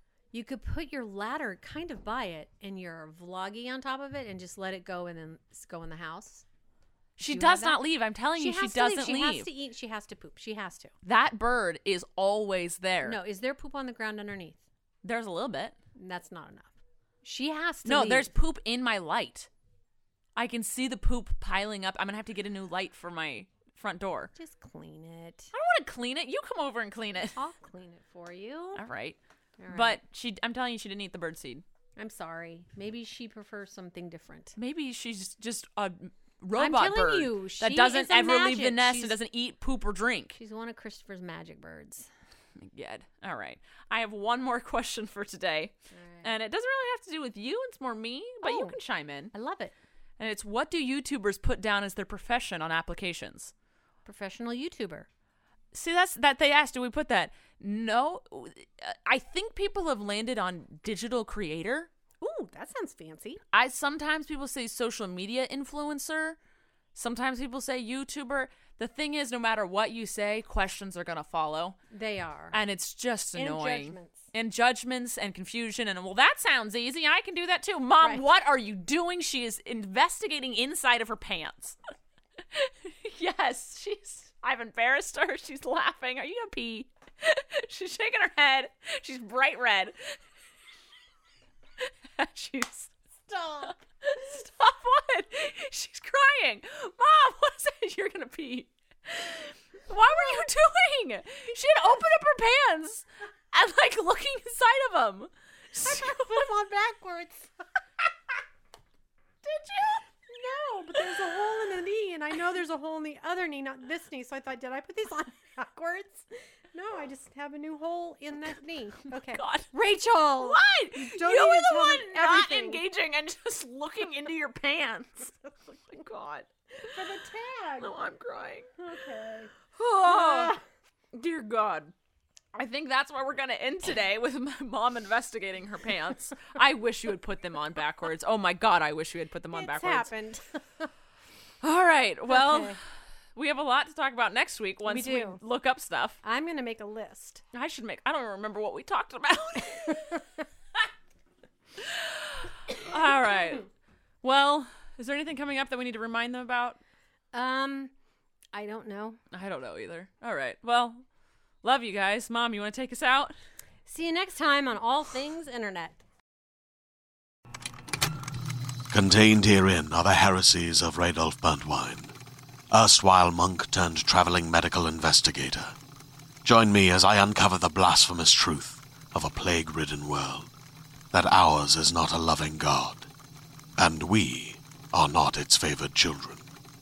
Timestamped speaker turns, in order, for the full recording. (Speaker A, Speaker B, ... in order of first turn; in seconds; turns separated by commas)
Speaker A: 0.3-6.5, Speaker B: 7.2-9.5, Speaker A: 7.2-7.8, Speaker A: 8.3-10.9, Speaker B: 11.0-13.2, Speaker A: 13.0-14.6, Speaker B: 15.0-15.8, Speaker A: 15.9-16.7, Speaker A: 17.2-18.3, Speaker B: 17.9-19.5, Speaker B: 20.4-24.3, Speaker A: 24.4-25.5, Speaker B: 25.5-27.4, Speaker A: 27.3-28.8, Speaker B: 28.8-29.2, Speaker A: 29.6-30.0, Speaker B: 29.7-31.6, Speaker A: 32.0-34.6, Speaker B: 34.6-40.4, Speaker A: 36.5-39.2, Speaker A: 40.4-42.1, Speaker B: 42.6-49.3, Speaker A: 45.9-46.3, Speaker A: 48.4-48.8, Speaker A: 49.3-49.8, Speaker B: 50.2-53.5, Speaker A: 54.0-55.1, Speaker B: 55.7-61.9, Speaker A: 62.2-63.4, Speaker B: 63.5-66.4, Speaker B: 67.0-71.8, Speaker A: 71.9-72.6, Speaker B: 72.5-81.8, Speaker A: 73.3-74.3, Speaker B: 82.5-90.1, Speaker B: 91.8-92.9, Speaker A: 93.3-93.8, Speaker B: 93.6-106.5, Speaker A: 105.8-107.5, Speaker B: 109.4-110.0, Speaker A: 110.3-122.8, Speaker B: 119.1-119.7, Speaker B: 120.4-126.5, Speaker A: 126.8-128.0, Speaker B: 127.8-128.8, Speaker A: 128.8-129.5, Speaker B: 129.7-130.6, Speaker A: 130.1-130.6, Speaker B: 131.1-131.9, Speaker B: 132.5-140.1, Speaker A: 139.5-140.9, Speaker B: 141.6-142.8, Speaker A: 142.3-142.8, Speaker B: 143.3-146.2, Speaker A: 144.9-145.4, Speaker A: 146.2-147.4, Speaker B: 147.5-150.2, Speaker A: 149.9-150.2, Speaker B: 151.8-153.7, Speaker B: 154.2-156.8, Speaker A: 157.3-157.9, Speaker A: 158.5-159.2, Speaker B: 159.3-161.1, Speaker B: 161.6-163.3, Speaker A: 163.9-166.0, Speaker C: 168.9-172.1, Speaker C: 172.7-175.8, Speaker C: 176.4-180.5, Speaker C: 181.1-183.1, Speaker C: 183.8-186.5